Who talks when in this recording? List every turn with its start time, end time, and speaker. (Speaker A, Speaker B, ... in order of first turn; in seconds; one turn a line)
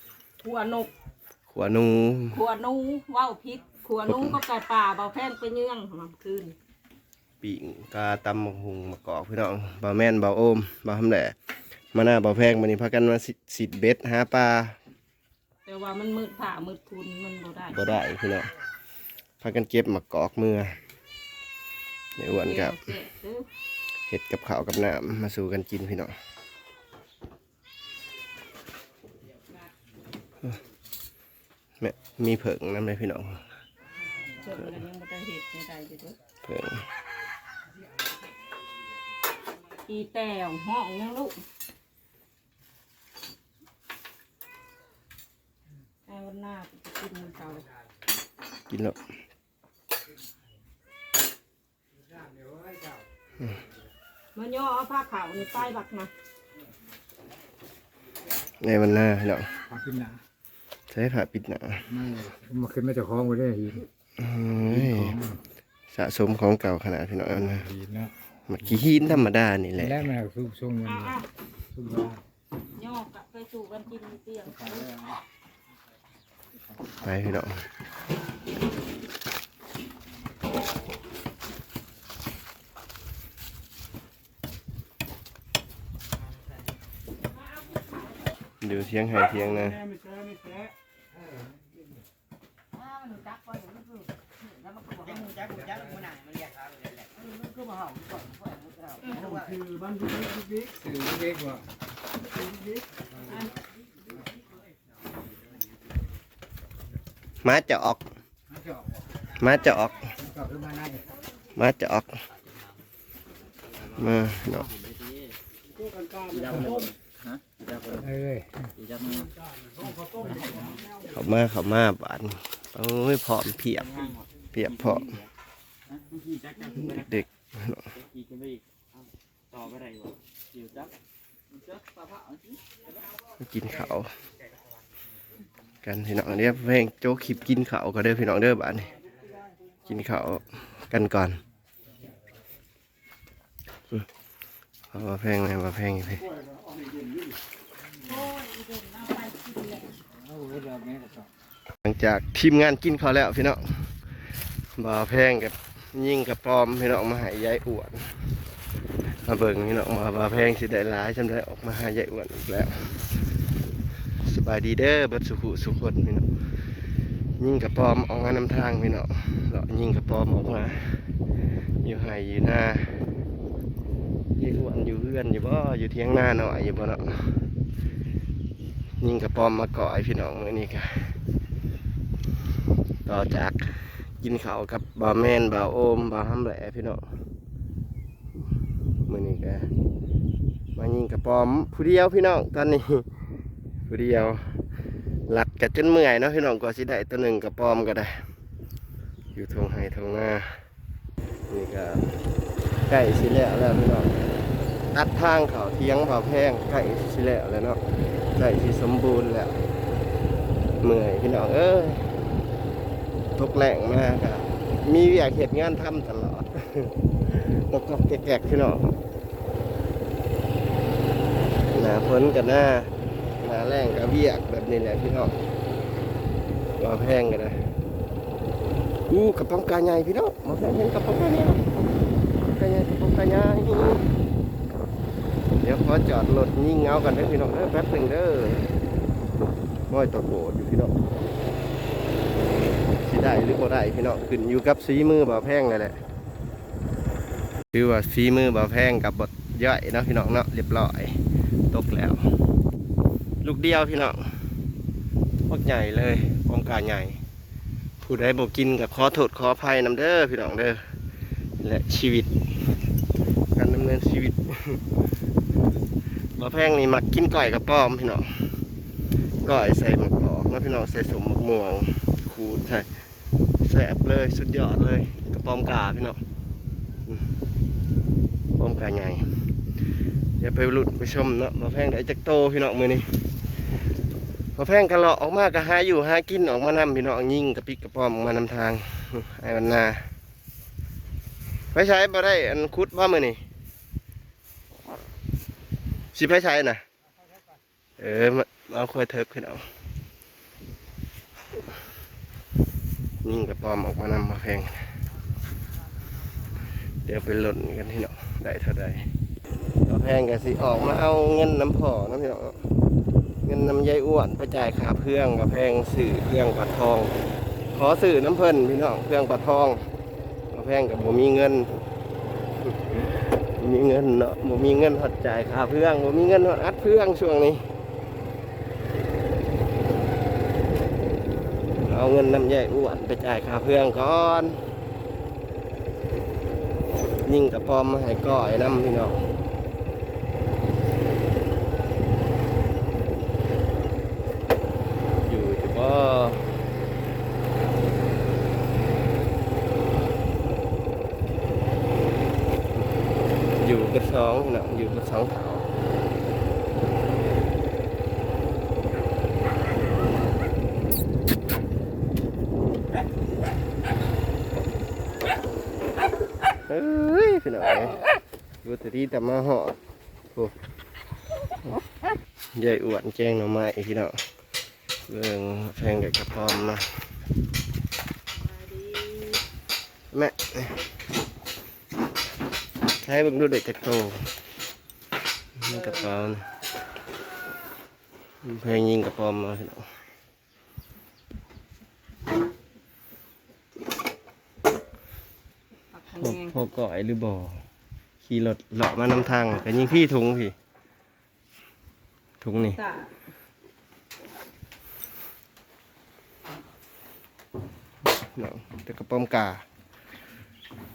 Speaker A: 0.4-0.9
Speaker B: 1.5-2.4
Speaker A: 2.3-6.5
Speaker B: 4.1-4.4
Speaker B: 7.4-11.3
Speaker B: 11.9-14.8
Speaker A: 15.7-17.9
Speaker B: 17.7-18.5
Speaker B: 19.4-20.8
Speaker B: 22.2-22.9
Speaker A: 22.3-23.5
Speaker B: 24.1-26.1
Speaker B: 31.8-33.4
Speaker A: 34.3-36.2
Speaker B: 36.4-36.9
Speaker A: 39.9-41.4
Speaker A: 46.1-47.7
Speaker B: 48.7-49.0
Speaker C: 52.3-53.0
Speaker A: 54.4-56.1
Speaker B: 58.6-59.5
Speaker C: 59.7-60.2
Speaker B: 60.9-62.0
Speaker C: 61.9-63.9
Speaker B: 64.2-65.2
Speaker C: 64.7-65.4
Speaker B: 65.9-67.7
Speaker C: 67.5-68.1
Speaker B: 68.5-70.1
Speaker C: 69.8-71.2
Speaker A: 70.8-71.3
Speaker C: 71.7-72.2
Speaker A: 72.7-74.9
Speaker C: 74.6-75.2
Speaker B: 77.0-77.6
Speaker B: 88.6-89.8
Speaker A: 99.0-99.5
Speaker C: 100.0-101.6
Speaker B: 107.4-108.0
Speaker C: 108.5-108.8
Speaker B: 109.4-110.2
Speaker C: 110.2-111.1
Speaker B: 111.6-112.1
Speaker B: 113.9-114.7
Speaker C: 116.3-119.3
Speaker C: 120.0-120.5
Speaker B: 121.0-125.2
Speaker D: 126.4-126.7
Speaker B: 126.8-127.9
Speaker D: 128.2-128.6
Speaker D: 129.5-130.9
Speaker B: 133.4-134.1
Speaker B: 135.8-138.9
Speaker B: 139.8-141.4
Speaker B: 144.9-146.3
Speaker A: 148.0-149.9
Speaker C: 150.2-151.3
Speaker B: 151.8-153.6
Speaker B: 154.8-158.1
Speaker B: 159.1-162.9
Speaker B: 164.2-166.3
Speaker B: 167.4-170.8
Speaker B: 171.8-172.9
Speaker B: 174.4-177.2
Speaker B: 179.0-181.1
Speaker B: 183.1-183.6
Speaker B: 184.2-187.0
Speaker B: 189.1-189.7
Speaker B: 190.8-193.1
Speaker B: 193.9-194.4
Speaker B: 195.3-198.2
Speaker B: 199.3-200.5
Speaker B: 201.5-202.0
Speaker B: 202.9-204.1
Speaker B: 204.9-207.8
Speaker B: 208.4-209.6
Speaker B: 210.8-212.0
Speaker B: 213.4-219.0
Speaker B: 221.7-225.3
Speaker B: 226.8-227.6
Speaker B: 229.1-231.7
Speaker B: 232.6-234.0
Speaker B: 235.6-238.7
Speaker B: 239.9-240.9
Speaker B: 243.0-246.0
Speaker B: 247.7-251.2
Speaker B: 251.7-252.2
Speaker B: 253.4-254.2
Speaker B: 255.5-257.2
Speaker B: 258.0-260.8
Speaker B: 261.6-262.3
Speaker B: 263.5-264.8
Speaker B: 266.4-268.3
Speaker B: 269.4-272.9
Speaker B: 273.6-276.2
Speaker B: 278.6-279.2
Speaker B: 280.4-283.1
Speaker B: 284.6-290.0
Speaker B: 291.7-293.4
Speaker B: 296.1-296.8
Speaker B: 298.0-299.6
Speaker B: 303.2-304.8
Speaker B: 307.1-309.0
Speaker B: 309.9-312.6
Speaker B: 313.4-317.1
Speaker B: 317.7-319.9
Speaker B: 320.5-321.7
Speaker B: 322.7-327.6
Speaker B: 331.8-334.6
Speaker B: 337.2-339.2
Speaker B: 345.2-346.4
Speaker B: 353.6-355.7
Speaker B: 366.7-368.1
Speaker B: 368.6-369.8
Speaker B: 372.6-374.2
Speaker B: 375.1-376.9
Speaker A: 378.4-379.4
Speaker B: 380.1-380.8
Speaker B: 383.0-384.3
Speaker B: 385.6-386.4
Speaker A: 385.7-386.1
Speaker B: 388.4-389.9
Speaker A: 395.9-396.6
Speaker B: 396.2-397.6
Speaker B: 398.2-400.5
Speaker B: 402.4-402.8
Speaker A: 402.6-403.1
Speaker B: 408.3-409.6